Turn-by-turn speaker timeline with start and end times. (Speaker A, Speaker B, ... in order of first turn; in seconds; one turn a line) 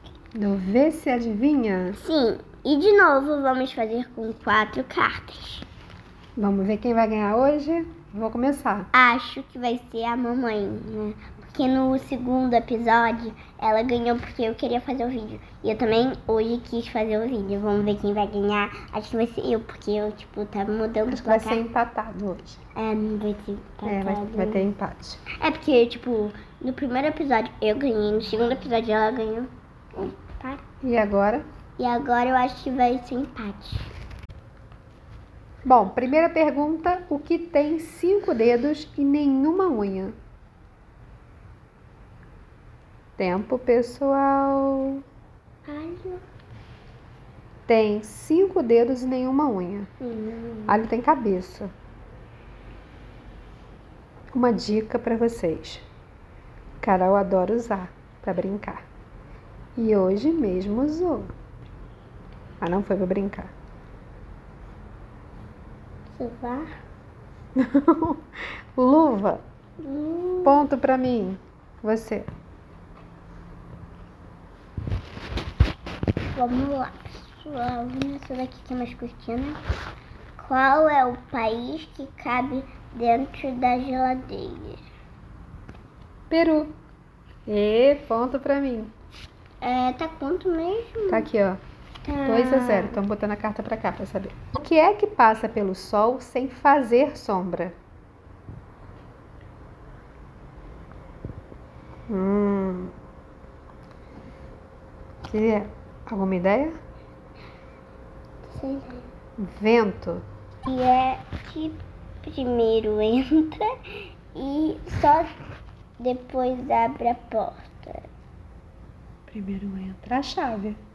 Speaker A: 0.3-2.0
Speaker B: 2.0-5.7
Speaker A: 6.4-8.9
Speaker B: 8.9-21.6
Speaker A: 21.1-22.6
Speaker B: 22.8-24.6
Speaker A: 23.8-25.2
Speaker B: 25.4-30.6
Speaker A: 30.8-31.4
Speaker B: 31.8-33.9
Speaker A: 35.6-40.1
Speaker A: 43.2-45.0
Speaker B: 45.7-46.2
Speaker A: 47.7-49.9
Speaker B: 50.0-50.8
Speaker A: 50.7-51.7
Speaker A: 54.3-55.9
Speaker A: 56.8-58.8
Speaker A: 59.8-61.3
Speaker A: 62.6-63.5
Speaker B: 66.1-66.7
Speaker A: 67.6-69.4
Speaker B: 69.8-70.7
Speaker A: 70.4-72.3
Speaker B: 76.3-79.6
Speaker B: 80.4-84.8
Speaker A: 86.3-86.7
Speaker A: 87.5-88.9
Speaker B: 89.6-91.3
Speaker A: 91.1-91.6
Speaker B: 92.0-93.0
Speaker A: 92.2-97.8
Speaker A: 102.1-102.9
Speaker A: 105.2-106.7
Speaker B: 108.5-109.1
Speaker A: 109.4-110.2
Speaker B: 110.6-115.4
Speaker B: 116.0-118.1
Speaker A: 119.3-120.8